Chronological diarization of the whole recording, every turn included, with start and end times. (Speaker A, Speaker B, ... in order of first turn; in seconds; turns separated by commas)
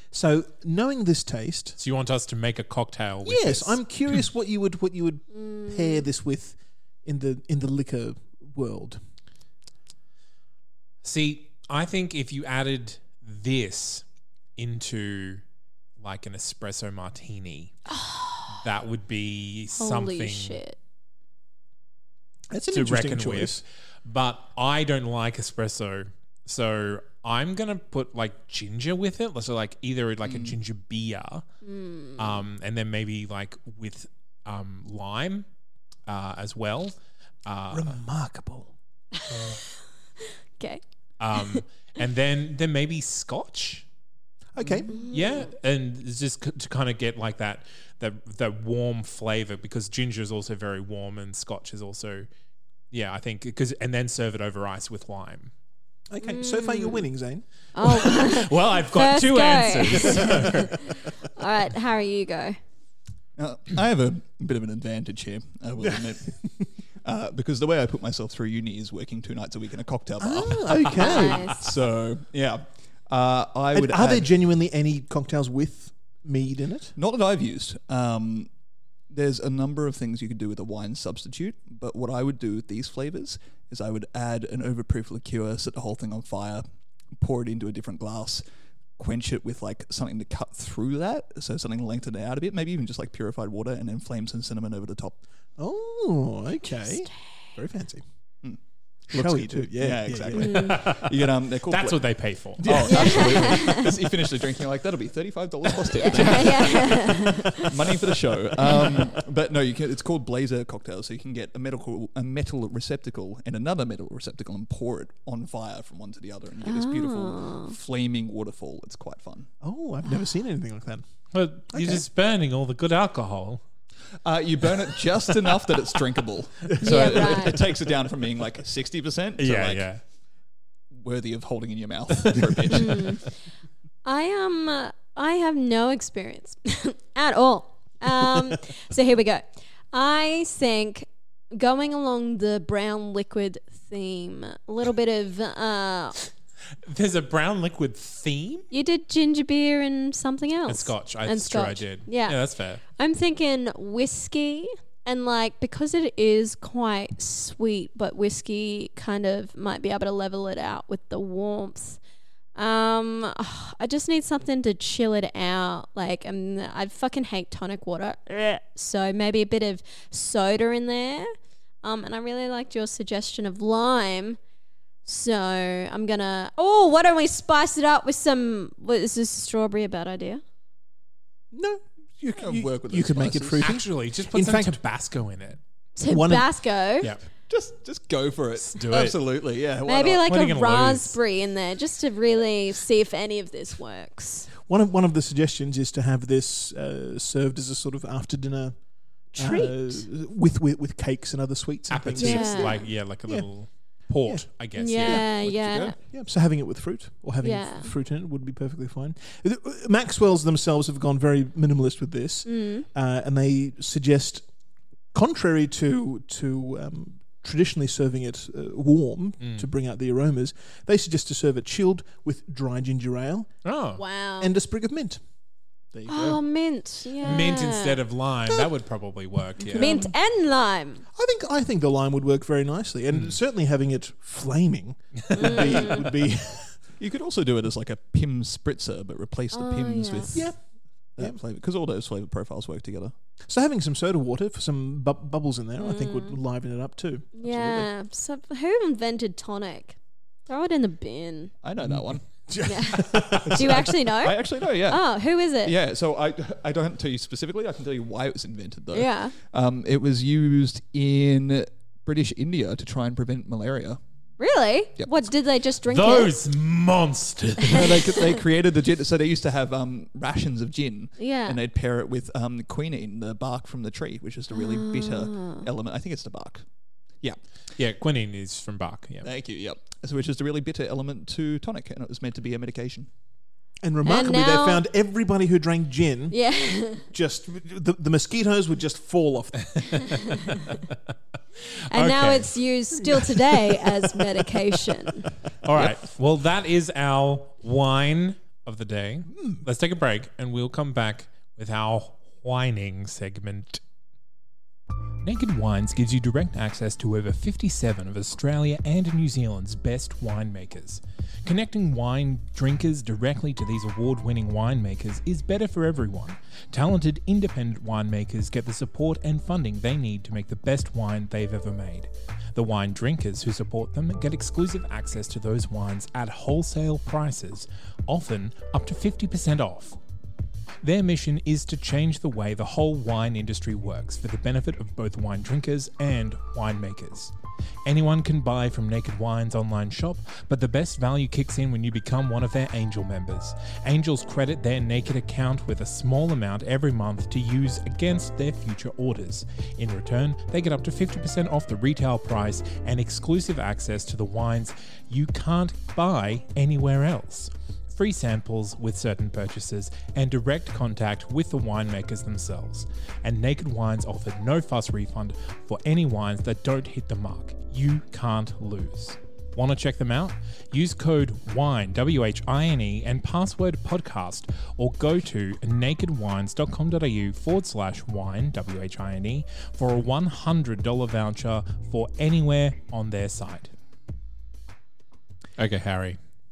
Speaker A: 0.1-1.8, Speaker B: 1.8-3.8, Speaker A: 3.2-9.0, Speaker C: 5.3-6.0, Speaker B: 11.0-14.0, Speaker B: 14.6-15.4, Speaker B: 16.0-17.8, Speaker C: 17.9-18.5, Speaker B: 18.5-20.6, Speaker C: 19.8-20.8, Speaker A: 22.5-23.6, Speaker B: 22.7-31.5, Speaker D: 30.2-30.6, Speaker C: 31.6-32.4, Speaker B: 32.2-35.5, Speaker B: 36.1-38.0, Speaker A: 37.7-38.7, Speaker B: 41.2-43.9, Speaker A: 44.5-44.9, Speaker B: 44.9-52.3, Speaker C: 44.9-45.5, Speaker B: 52.9-55.5, Speaker A: 56.1-57.5, Speaker C: 56.2-57.1, Speaker C: 57.8-62.6, Speaker B: 57.9-60.8, Speaker D: 63.4-66.4, Speaker A: 65.8-66.1, Speaker D: 67.0-74.3, Speaker A: 70.2-71.6, Speaker C: 71.0-71.6, Speaker A: 73.7-77.0, Speaker D: 77.0-78.5, Speaker D: 79.1-86.7, Speaker D: 87.2-88.4, Speaker D: 89.0-95.2, Speaker A: 95.6-98.0, Speaker D: 98.4-119.5, Speaker A: 99.1-100.7, Speaker C: 100.3-100.8, Speaker B: 100.5-103.3, Speaker A: 102.6-103.6, Speaker C: 102.9-103.9, Speaker C: 106.0-107.7, Speaker C: 116.7-117.8, Speaker A: 119.6-121.0, Speaker B: 121.3-123.6, Speaker A: 121.7-122.0, Speaker D: 124.2-129.9, Speaker A: 126.7-127.4, Speaker C: 126.8-127.6, Speaker B: 129.4-130.0, Speaker D: 130.9-133.2, Speaker C: 132.7-133.2, Speaker C: 134.1-146.2, Speaker B: 146.8-148.7, Speaker C: 148.7-152.4, Speaker B: 150.7-152.8, Speaker C: 152.9-162.0, Speaker C: 162.6-171.3, Speaker C: 171.8-174.4, Speaker C: 175.1-180.4, Speaker A: 181.5-184.8, Speaker D: 182.3-183.7, Speaker B: 183.6-185.6, Speaker C: 186.0-187.1, Speaker A: 186.0-186.5, Speaker D: 187.5-190.2, Speaker B: 188.6-189.2, Speaker C: 189.9-194.5, Speaker B: 190.3-191.2, Speaker A: 194.6-198.8, Speaker A: 199.3-203.5, Speaker C: 199.3-200.0, Speaker B: 201.9-205.3, Speaker C: 202.2-202.8, Speaker A: 204.2-204.5, Speaker C: 204.8-206.0, Speaker A: 205.0-214.4, Speaker D: 205.1-205.9, Speaker C: 207.4-207.9, Speaker C: 212.5-212.9, Speaker A: 215.1-223.5, Speaker B: 219.4-219.7, Speaker B: 223.7-224.0, Speaker C: 224.0-224.5, Speaker A: 224.4-225.2, Speaker A: 225.9-226.4, Speaker C: 226.1-228.0, Speaker B: 227.2-230.0, Speaker A: 229.7-230.1, Speaker C: 229.7-231.0, Speaker A: 231.2-236.8, Speaker C: 235.3-236.1, Speaker D: 235.6-235.9, Speaker D: 237.0-240.5, Speaker C: 239.5-240.4, Speaker A: 240.3-240.6, Speaker D: 241.2-243.1, Speaker A: 243.5-247.9, Speaker C: 245.8-246.4, Speaker C: 247.4-251.5, Speaker D: 251.6-252.3, Speaker A: 251.8-253.9, Speaker C: 252.6-255.8, Speaker D: 253.4-264.0, Speaker C: 258.9-259.4, Speaker C: 264.4-266.3, Speaker B: 265.9-268.2, Speaker D: 267.7-276.6, Speaker C: 267.8-268.1, Speaker C: 271.2-271.6, Speaker C: 274.5-275.7, Speaker B: 277.8-279.3, Speaker D: 279.2-283.1, Speaker A: 283.8-286.4, Speaker C: 284.1-284.8, Speaker C: 286.3-287.1, Speaker A: 287.1-290.3, Speaker C: 291.9-295.3, Speaker B: 291.9-292.6, Speaker B: 295.6-303.8, Speaker A: 299.3-299.6, Speaker B: 305.2-330.0, Speaker B: 330.8-337.3, Speaker B: 337.9-383.7, Speaker B: 385.6-386.2